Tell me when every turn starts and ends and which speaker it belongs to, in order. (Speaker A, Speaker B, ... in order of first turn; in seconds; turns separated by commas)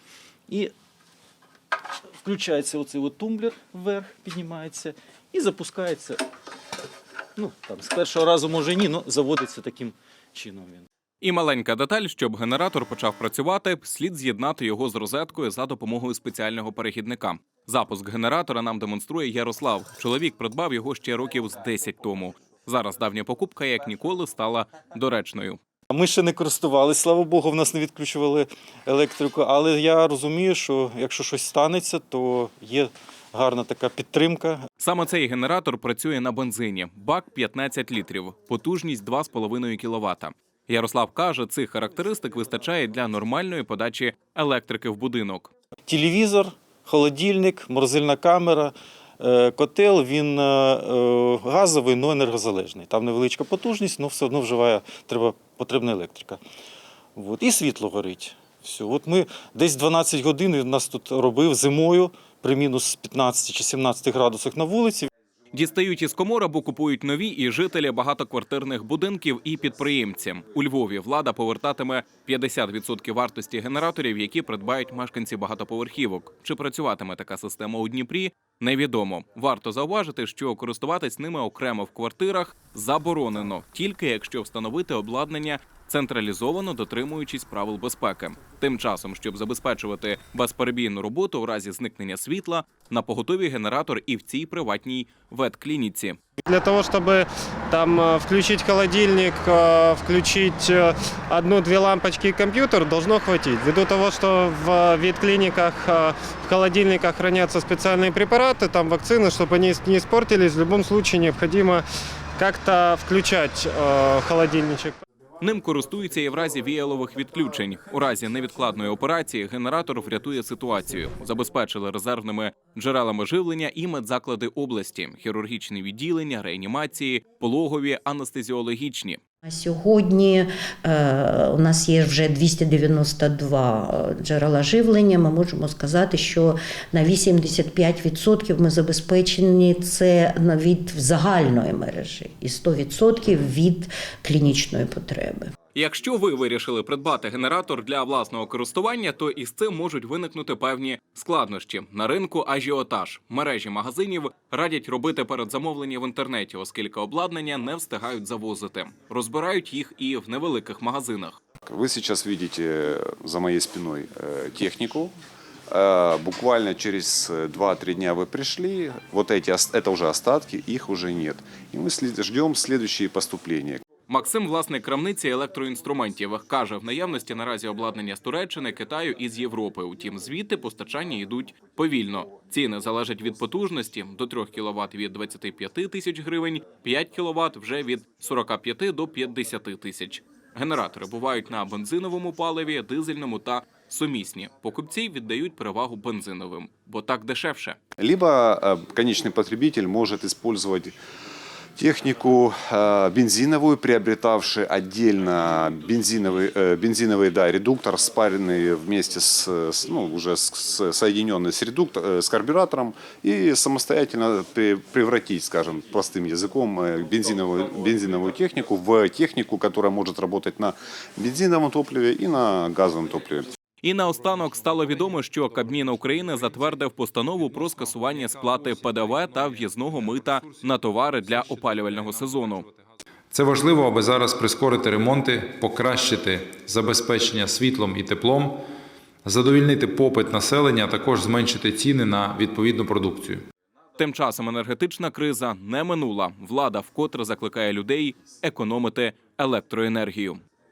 Speaker A: 2.2-6.2, Speaker A: 7.3-10.9, Speaker B: 11.2-25.6, Speaker A: 25.9-34.6, Speaker B: 34.8-45.5, Speaker A: 45.9-56.4, Speaker A: 57.1-65.1, Speaker B: 65.5-96.2, Speaker C: 96.4-111.8, Speaker C: 112.4-114.9, Speaker B: 115.4-129.2, Speaker D: 129.4-145.5, Speaker B: 145.7-161.4, Speaker E: 161.7-165.1, Speaker E: 165.7-173.8, Speaker B: 174.1-197.8, Speaker E: 198.0-200.9, Speaker E: 201.8-223.5, Speaker B: 223.8-232.7, Speaker F: 224.3-225.0, Speaker F: 227.4-238.6, Speaker F: 239.2-243.4, Speaker B: 244.0-250.4